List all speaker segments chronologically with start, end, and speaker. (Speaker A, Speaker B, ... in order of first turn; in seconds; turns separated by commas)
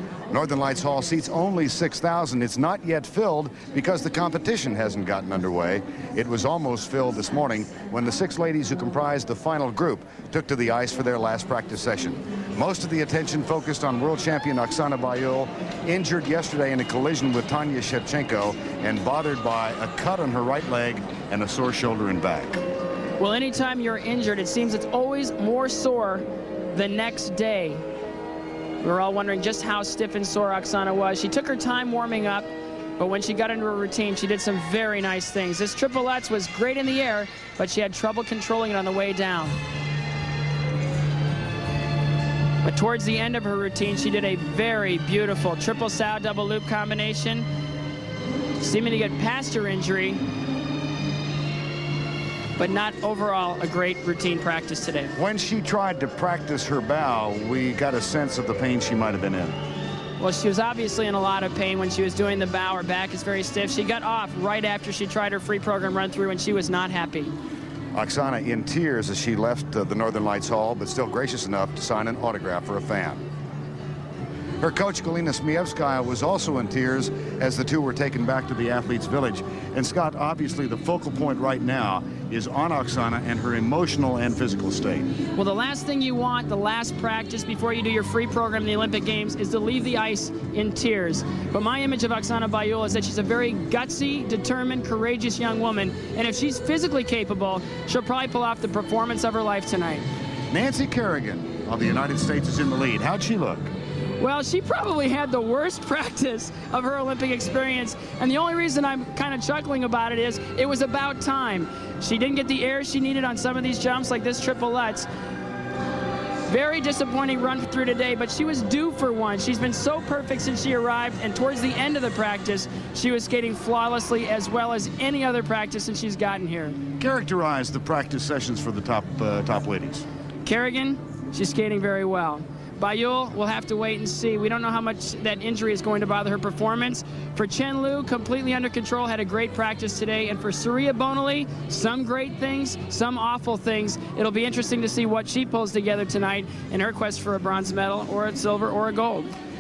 Speaker A: 0.3-22.6, Speaker B: 23.2-27.8, Speaker B: 28.8-32.5, Speaker B: 33.0-39.6, Speaker B: 42.6-47.5, Speaker B: 48.6-50.2, Speaker B: 52.6-55.1, Speaker A: 55.2-59.5, Speaker B: 60.2-67.3, Speaker A: 68.0-73.2, Speaker A: 74.6-85.1, Speaker B: 85.3-100.1, Speaker A: 100.5-103.7, Speaker B: 104.2-115.1, Speaker B: 116.5-126.8, Speaker A: 127.0-130.1, Speaker B: 130.4-149.3